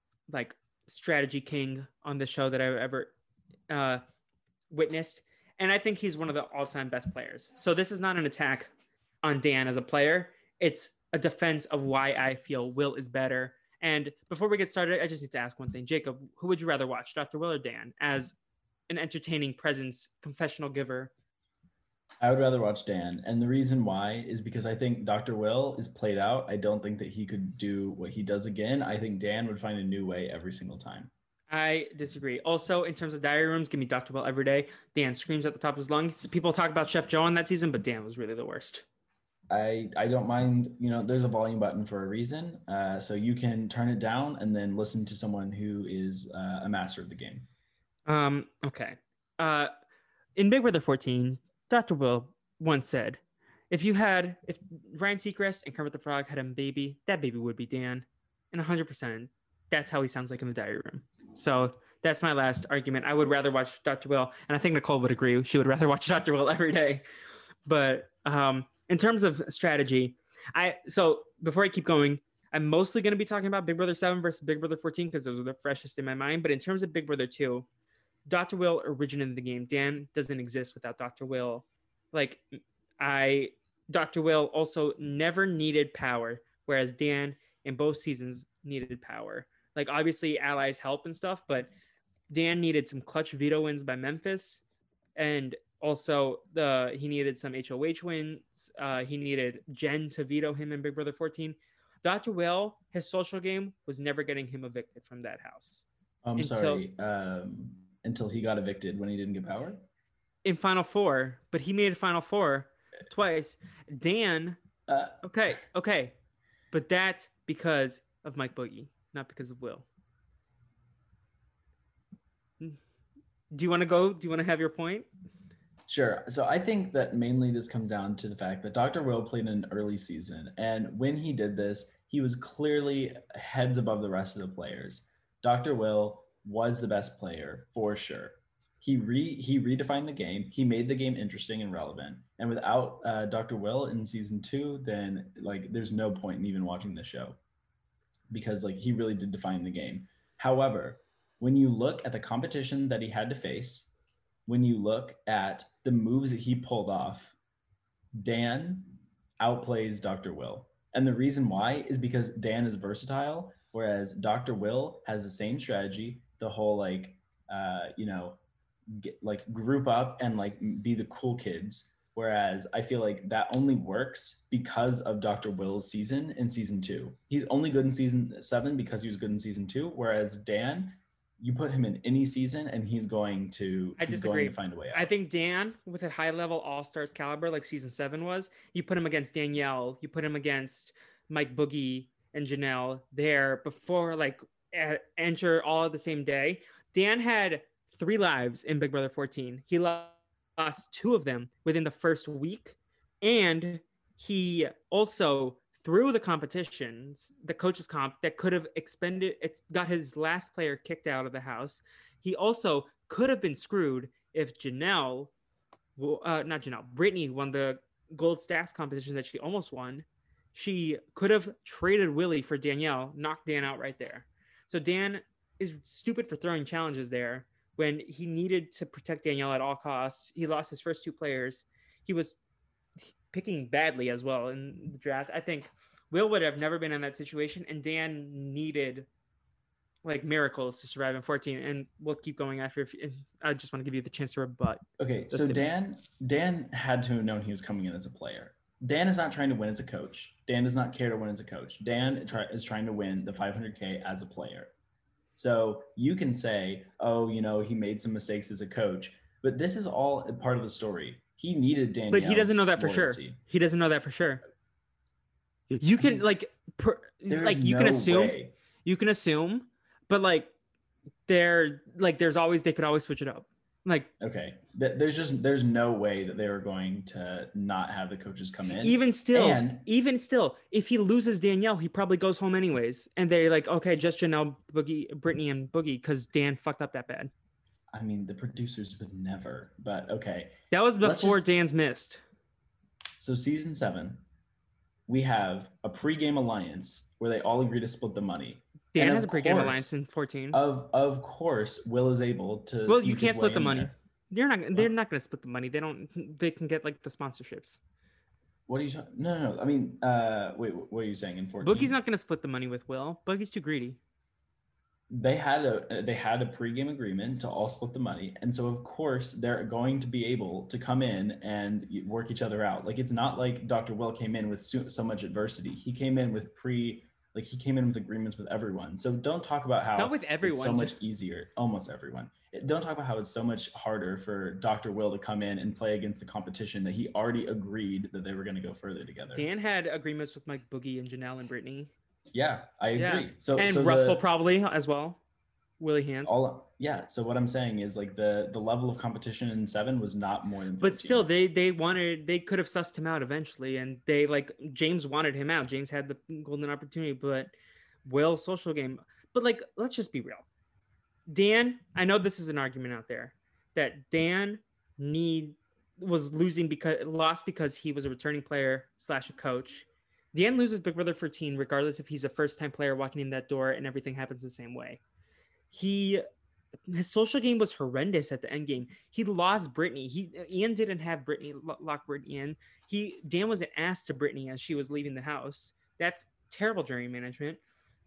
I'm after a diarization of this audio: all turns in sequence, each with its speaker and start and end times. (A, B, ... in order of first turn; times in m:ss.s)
0:00.3-0:03.1 A
0:03.7-0:04.0 A
0:04.7-0:08.7 A
0:09.2-0:18.4 A
0:18.9-0:21.1 A
0:22.2-0:31.1 B
0:31.5-0:38.8 A
0:39.5-0:47.5 B
0:48.1-0:49.7 A
0:50.4-1:07.0 A
1:07.7-1:17.7 A
1:18.3-1:31.7 A
1:32.3-1:34.6 A
1:35.2-1:45.8 A
1:46.2-1:49.9 B
1:46.4-1:46.8 A
1:50.4-1:54.6 A
1:54.9-1:55.2 B
1:55.2-1:56.2 A
1:56.7-1:59.9 A
2:03.5-2:05.1 A
2:05.9-2:27.4 B
2:28.3-2:33.9 B
2:34.5-2:37.4 B
2:38.1-2:48.4 B
2:48.9-3:05.1 B
3:04.0-3:35.3 A
3:36.0-3:52.4 A
3:53.0-3:59.1 A
4:00.0-4:05.6 A
4:05.0-4:14.7 B
4:15.4-4:23.4 B
4:22.1-4:24.4 A
4:25.7-4:30.5 A
4:26.0-4:26.2 B
4:27.3-4:28.5 B
4:31.3-4:34.1 A
4:34.2-4:39.9 B
4:38.8-4:47.3 A
4:47.9-4:51.4 B
4:50.7-4:52.2 A
4:53.2-4:54.2 B
4:55.1-4:59.9 B
4:58.9-5:00.6 A
5:00.5-5:04.0 B
5:02.9-5:07.8 A
5:08.7-5:12.0 B
5:11.6-5:14.0 A
5:15.1-5:39.5 B
5:30.0-5:31.0 A
5:39.3-5:41.9 A
5:42.3-5:44.2 B
5:43.0-5:45.2 A
5:45.8-5:46.4 A
5:46.2-5:51.3 B
5:50.8-5:57.5 A
5:58.0-6:00.5 A
6:01.3-6:15.0 A
6:15.7-6:16.2 A
6:16.9-6:27.6 A